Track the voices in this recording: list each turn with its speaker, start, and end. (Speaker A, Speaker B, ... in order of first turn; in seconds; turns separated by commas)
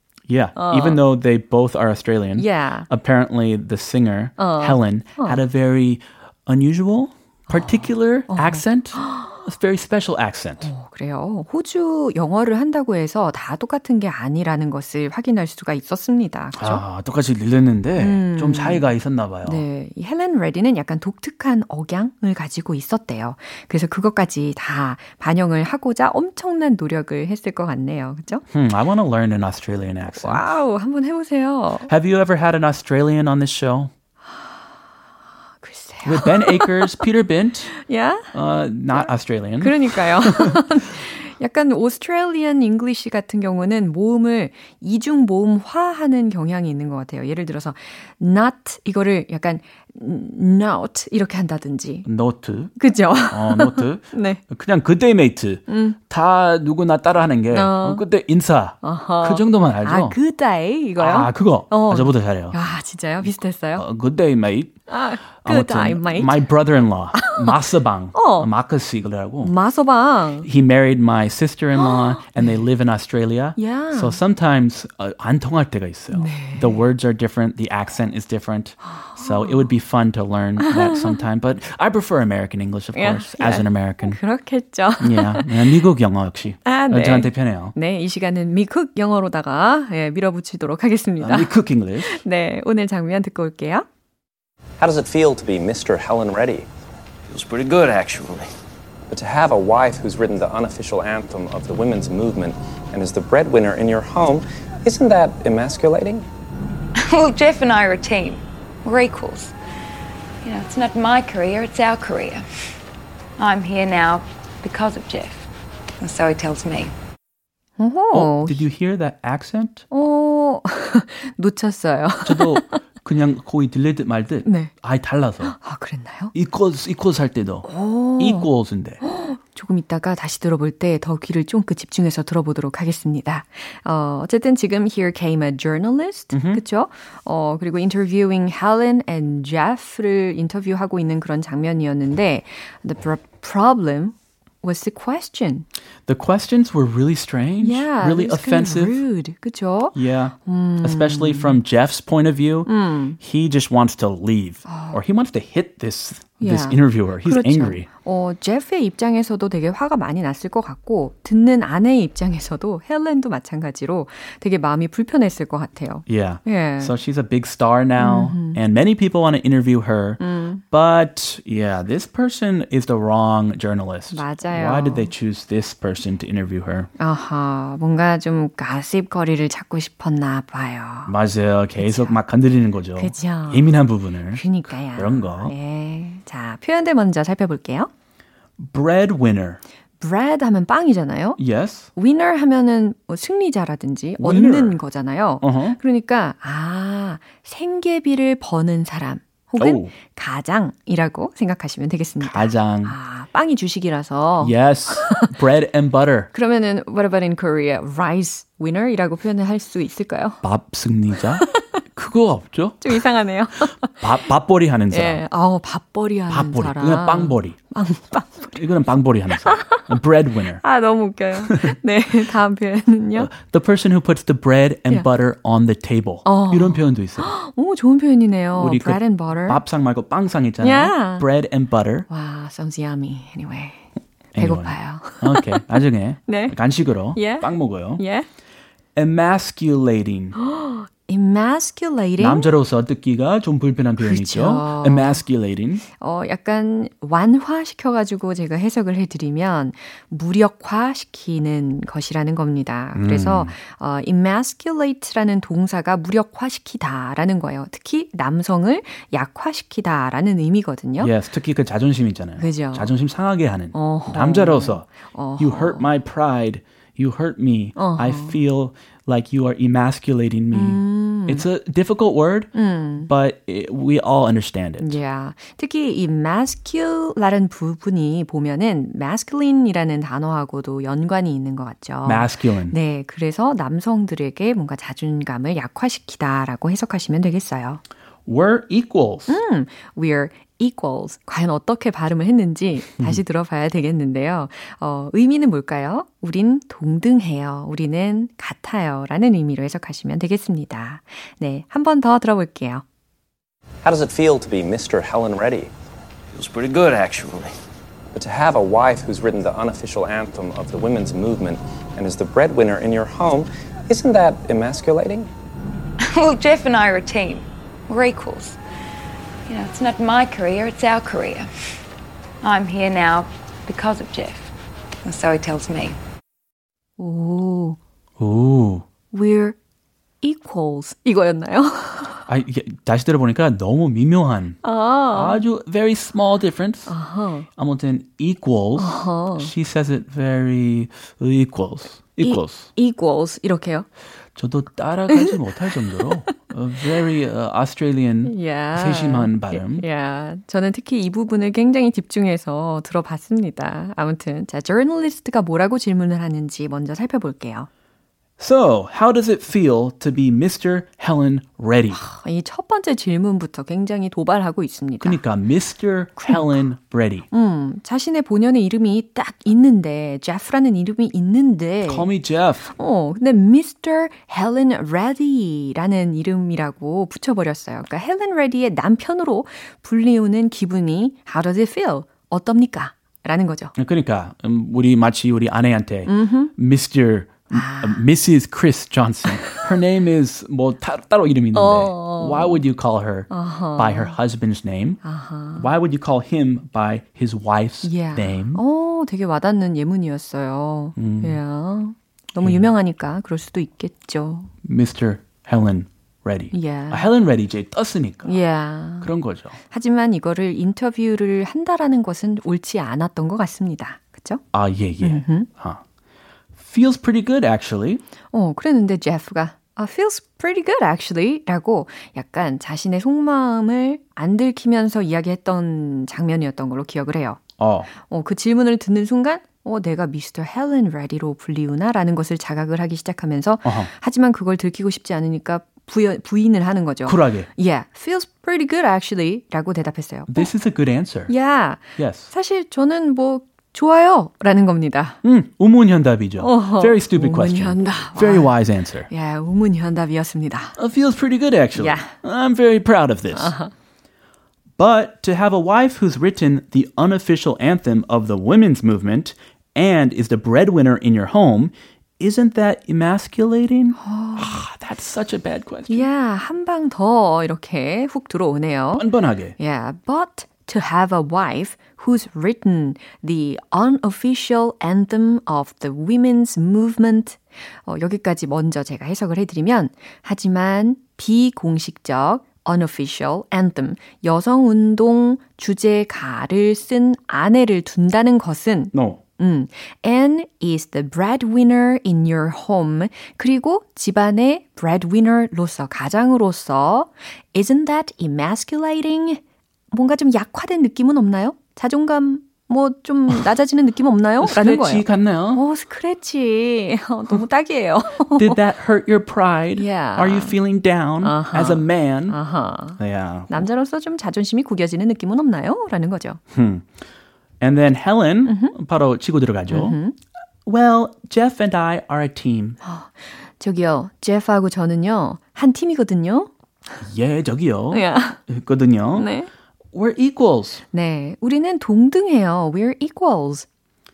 Speaker A: 0.3-10.7, Speaker B: 0.6-1.0, Speaker B: 2.4-2.9, Speaker B: 4.4-5.4, Speaker B: 7.5-9.4, Speaker B: 10.6-16.8, Speaker A: 16.6-19.6, Speaker B: 18.0-18.9, Speaker B: 19.4-28.4, Speaker A: 28.5-30.4, Speaker B: 30.1-31.9, Speaker A: 31.9-33.9, Speaker B: 34.3-34.6, Speaker B: 35.6-37.0, Speaker A: 36.0-37.8, Speaker B: 37.7-38.3, Speaker A: 38.3-40.6, Speaker B: 38.9-52.1, Speaker A: 52.0-52.7, Speaker B: 52.8-54.4, Speaker A: 53.3-60.2, Speaker B: 55.7-56.0, Speaker B: 57.5-58.0, Speaker B: 58.8-63.9, Speaker A: 61.0-62.5, Speaker A: 63.8-64.8, Speaker B: 64.9-66.5, Speaker A: 65.4-69.5, Speaker B: 67.1-67.6, Speaker B: 68.1-68.5, Speaker B: 69.4-70.5, Speaker A: 70.4-84.2, Speaker B: 71.8-72.6, Speaker B: 73.6-74.2, Speaker B: 76.1-76.8, Speaker B: 79.0-79.7, Speaker B: 80.6-81.1, Speaker B: 82.9-85.6, Speaker A: 85.0-87.7, Speaker B: 86.6-93.8, Speaker A: 91.2-92.2, Speaker C: 94.8-96.7, Speaker D: 97.3-98.5, Speaker C: 99.1-106.3, Speaker E: 107.0-109.5, Speaker E: 110.4-112.4, Speaker E: 113.4-115.5, Speaker E: 116.0-116.9, Speaker B: 117.8-118.6, Speaker A: 118.1-119.8, Speaker B: 119.9-122.8, Speaker A: 122.2-125.5, Speaker B: 124.4-124.7, Speaker B: 125.4-126.3, Speaker A: 126.3-127.7, Speaker B: 127.6-128.5, Speaker A: 128.2-129.0, Speaker B: 129.0-145.7, Speaker A: 136.3-136.6, Speaker A: 146.1-149.0, Speaker B: 147.6-151.6, Speaker A: 149.9-157.9, Speaker B: 152.7-153.2, Speaker B: 154.7-155.0, Speaker B: 156.4-166.9, Speaker A: 166.1-176.9, Speaker B: 168.0-168.6, Speaker B: 170.2-170.6, Speaker B: 174.1-175.1, Speaker B: 177.0-181.1, Speaker A: 181.1-185.5, Speaker B: 181.8-182.2, Speaker B: 182.9-183.8, Speaker B: 184.3-187.9, Speaker A: 188.6-189.6, Speaker B: 190.0-191.4, Speaker A: 191.4-191.9, Speaker B: 191.9-205.3, Speaker A: 194.2-194.8, Speaker A: 195.4-195.8, Speaker A: 199.6-199.9, Speaker A: 202.2-202.9, Speaker A: 204.4-206.3, Speaker B: 206.3-210.4, Speaker A: 210.4-213.0, Speaker B: 212.8-214.0, Speaker A: 214.0-215.2, Speaker B: 214.9-218.6, Speaker A: 216.3-217.6, Speaker A: 218.5-220.6, Speaker B: 219.4-219.9, Speaker B: 220.6-223.3, Speaker A: 221.4-221.7, Speaker A: 223.2-227.3, Speaker B: 226.2-229.6, Speaker A: 228.6-232.1, Speaker B: 230.6-231.2, Speaker B: 232.1-233.8, Speaker A: 234.3-238.0, Speaker B: 234.3-235.6, Speaker B: 236.3-236.6, Speaker B: 237.1-238.3, Speaker A: 238.9-240.3, Speaker B: 240.4-242.5, Speaker A: 242.2-245.8, Speaker B: 244.0-245.2, Speaker B: 246.0-261.1, Speaker A: 252.9-253.5, Speaker A: 261.0-264.9, Speaker B: 262.4-262.9, Speaker B: 263.7-265.9, Speaker A: 265.4-272.5, Speaker B: 267.8-268.4, Speaker B: 270.5-271.4, Speaker B: 272.5-273.1, Speaker A: 273.1-275.0, Speaker B: 274.8-287.8, Speaker A: 282.0-282.8, Speaker A: 288.2-289.4, Speaker B: 289.3-302.8, Speaker C: 303.8-305.7, Speaker D: 306.3-307.5, Speaker C: 308.1-315.3, Speaker E: 316.0-318.6, Speaker E: 319.5-321.5, Speaker E: 322.4-324.5, Speaker E: 325.0-326.0, Speaker B: 327.0-327.8, Speaker A: 328.2-328.8, Speaker B: 329.1-329.6, Speaker B: 330.2-332.2, Speaker A: 332.3-334.6, Speaker B: 334.6-335.4, Speaker A: 335.1-336.9, Speaker B: 336.9-337.5, Speaker A: 337.6-342.7, Speaker B: 338.8-339.5, Speaker B: 342.2-343.9, Speaker A: 344.4-349.9, Speaker B: 345.1-345.4, Speaker B: 346.0-346.3, Speaker B: 348.2-357.7, Speaker A: 358.4-362.0, Speaker B: 361.9-365.2, Speaker A: 365.0-367.3, Speaker B: 366.2-366.5, Speaker B: 367.3-372.1, Speaker A: 371.8-372.7, Speaker B: 372.7-383.7, Speaker A: 383.8-395.0, Speaker B: 386.1-386.5, Speaker B: 387.5-388.0, Speaker B: 391.5-392.6, Speaker B: 393.3-394.2, Speaker B: 395.0-395.7, Speaker A: 395.6-398.6, Speaker B: 397.8-404.5, Speaker A: 400.9-401.4, Speaker A: 402.4-402.7, Speaker A: 404.6-408.4, Speaker B: 406.5-407.1, Speaker B: 408.2-409.1, Speaker A: 409.0-409.6, Speaker B: 409.7-414.4, Speaker A: 414.5-415.8, Speaker B: 415.0-415.5, Speaker A: 416.6-418.0, Speaker B: 418.3-427.4, Speaker A: 427.6-427.9, Speaker B: 427.9-440.5, Speaker A: 433.6-433.9, Speaker A: 437.0-437.5, Speaker A: 440.3-441.3, Speaker B: 441.3-445.2, Speaker A: 442.0-442.3, Speaker A: 445.2-449.1, Speaker B: 446.4-448.5, Speaker B: 449.1-450.8, Speaker A: 450.8-453.5, Speaker B: 451.7-452.1, Speaker B: 453.3-453.7, Speaker A: 454.8-466.1, Speaker B: 464.0-464.6, Speaker B: 465.9-469.1, Speaker A: 468.9-469.6, Speaker B: 469.6-499.4, Speaker A: 488.9-489.2, Speaker B: 499.9-508.6, Speaker A: 504.4-505.6, Speaker A: 508.3-512.4, Speaker B: 509.7-510.6, Speaker B: 511.2-516.4, Speaker A: 513.0-513.6, Speaker A: 516.5-516.9, Speaker A: 517.6-520.0, Speaker B: 518.5-518.7, Speaker B: 519.7-520.1, Speaker A: 520.6-522.8, Speaker B: 522.8-526.5, Speaker A: 527.0-529.3, Speaker B: 527.9-528.4, Speaker B: 529.1-529.5, Speaker A: 529.9-530.8, Speaker B: 530.9-533.6